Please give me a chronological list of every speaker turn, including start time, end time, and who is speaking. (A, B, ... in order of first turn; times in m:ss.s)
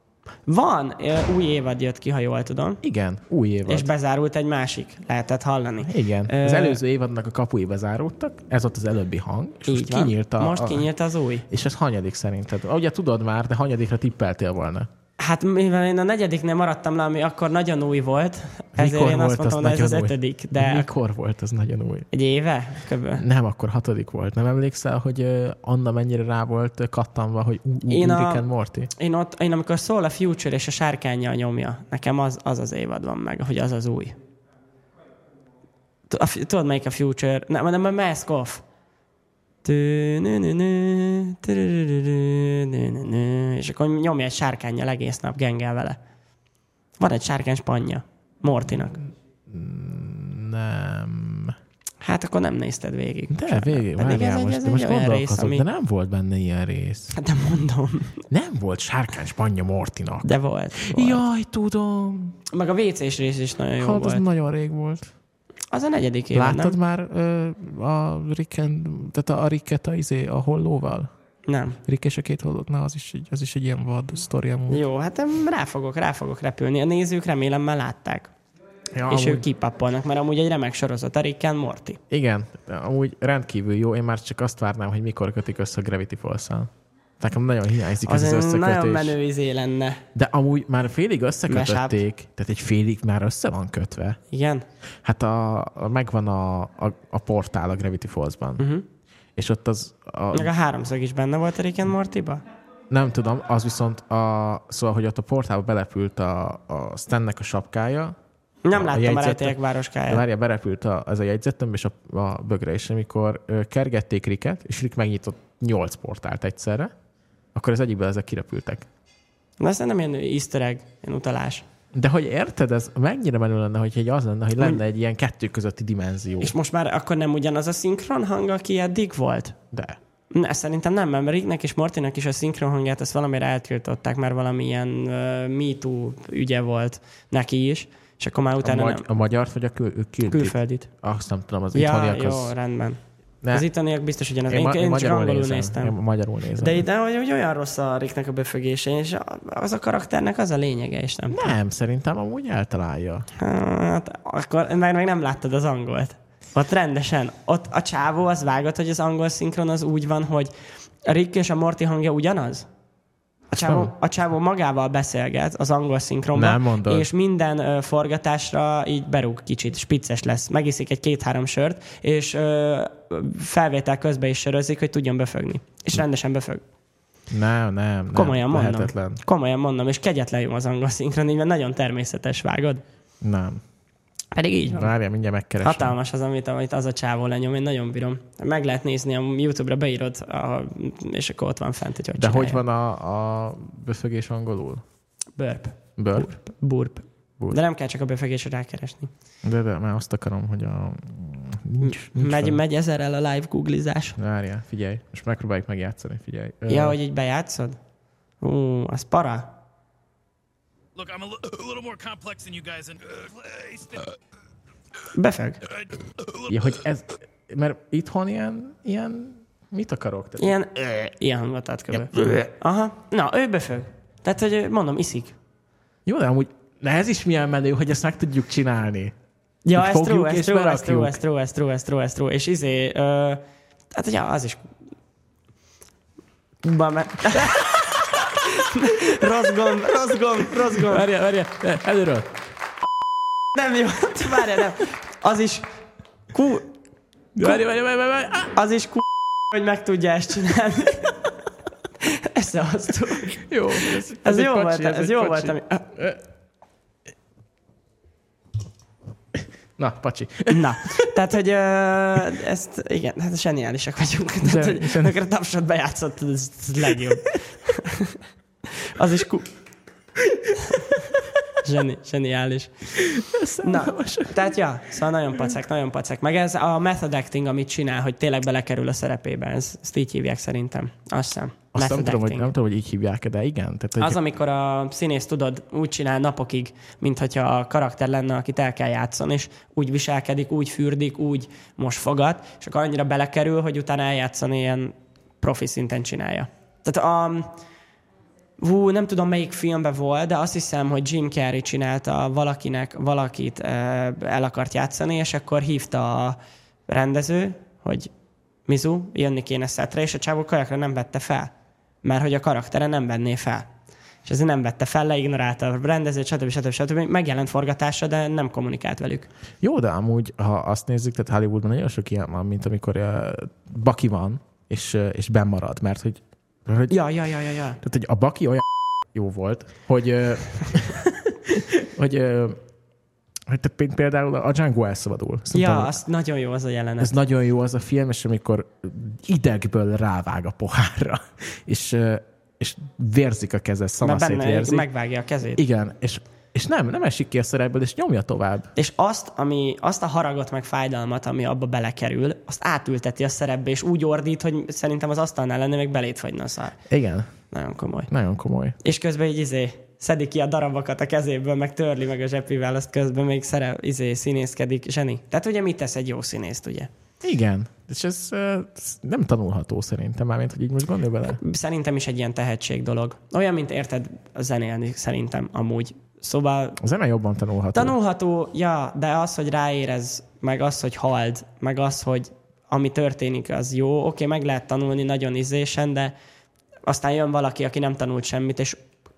0:00.5-0:02.8 A
0:02.8-0:03.9 B
0:03.7-0:06.8 A
0:05.8-0:10.9 B
0:09.7-0:11.5 A
0:11.5-0:14.9 B
0:15.2-0:20.9 A
0:18.8-0:22.1 B
0:22.1-0:23.2 A
0:23.2-0:28.9 B
0:27.9-0:34.2 A
0:36.1-0:38.6 A
0:39.6-0:46.0 A
0:47.0-0:49.0 A
0:49.5-0:51.6 B
0:52.0-0:55.6 A
0:53.3-0:57.2 B
0:57.1-0:58.3 A
0:58.3-1:02.4 B
1:00.2-1:01.2 A
1:02.5-1:04.2 A
1:03.8-1:05.1 B
1:05.7-1:06.8 A
1:06.3-1:11.1 B
1:11.5-1:11.8 A
1:11.8-1:14.8 B
1:14.7-1:18.3 A
1:18.9-1:19.5 B
1:19.1-1:22.0 A
1:22.1-1:29.2 B
1:28.0-1:30.0 A
1:30.1-1:34.2 B
1:31.5-1:32.0 A
1:34.3-1:34.7 A
1:35.0-1:38.7 B
1:38.6-1:38.9 A
1:39.4-1:40.5 B
1:40.3-1:42.4 A
1:42.9-1:48.2 B
1:48.6-1:50.2 A
1:48.7-1:56.9 B
1:57.5-1:58.9 B
1:59.6-2:01.6 A
2:01.9-2:06.6 B
2:06.4-2:09.6 A
2:09.7-2:10.0 B
2:10.3-2:19.1 A
2:18.6-2:22.5 B
2:20.3-2:20.9 A
2:21.7-2:23.0 A
2:23.5-2:26.0 A
2:24.5-2:26.8 B
2:26.6-2:31.5 A
2:31.3-2:33.3 B
2:33.4-2:40.5 A
2:41.0-2:42.7 A
2:43.5-2:56.6 A
2:43.6-2:43.9 B
2:46.3-2:47.1 B
2:57.3-2:59.2 B
2:58.1-3:02.8 A
3:03.2-3:03.6 B
3:04.3-3:04.9 A
3:04.7-3:06.0 B
3:05.6-3:12.6 A
3:12.2-3:14.8 B
3:15.4-3:19.1 A
3:16.0-3:16.3 B
3:19.4-3:22.6 B
3:21.8-3:24.2 A
3:24.2-3:27.0 B
3:26.7-3:27.8 A
3:28.4-3:29.6 A
3:31.0-3:34.2 C
3:35.1-3:35.6 A
3:35.8-3:36.5 C
3:36.5-3:40.6 B
3:40.4-3:45.4 A
3:42.0-3:42.4 B
3:46.1-3:49.2 B
3:49.6-3:54.7 A
3:49.7-3:51.2 B
3:56.6-4:01.1 A
4:00.7-4:02.3 B
4:03.5-4:05.7 A
4:06.3-4:06.7 A
4:07.4-4:08.5 B
4:08.5-4:11.2 A
4:12.0-4:15.9 A
4:13.4-4:16.2 B
4:19.8-4:21.1 B
4:20.5-4:29.5 A
4:24.4-4:25.2 B
4:30.5-4:31.1 A
4:31.6-4:32.9 A
4:33.0-4:34.6 B
4:33.6-4:42.5 A
4:41.7-4:44.2 B
4:44.0-4:57.5 A
4:58.6-5:08.1 A
5:08.7-5:11.5 A
5:12.0-5:13.7 A
5:14.2-5:19.3 A
5:19.6-5:27.0 B
5:26.9-5:27.8 A
5:27.8-5:32.6 B
5:33.5-5:36.0 B
5:35.5-5:37.2 A
5:37.0-5:44.9 B
5:44.0-5:45.6 A
5:45.6-5:48.7 B
5:48.8-5:56.8 A
5:56.9-5:57.3 B
5:57.5-5:58.1 A
5:58.1-5:58.8 B
5:58.8-6:06.9 A
6:07.2-6:11.4 B
6:11.3-6:16.8 A
6:16.8-6:18.0 B
6:17.7-6:26.1 A
6:26.9-6:28.8 A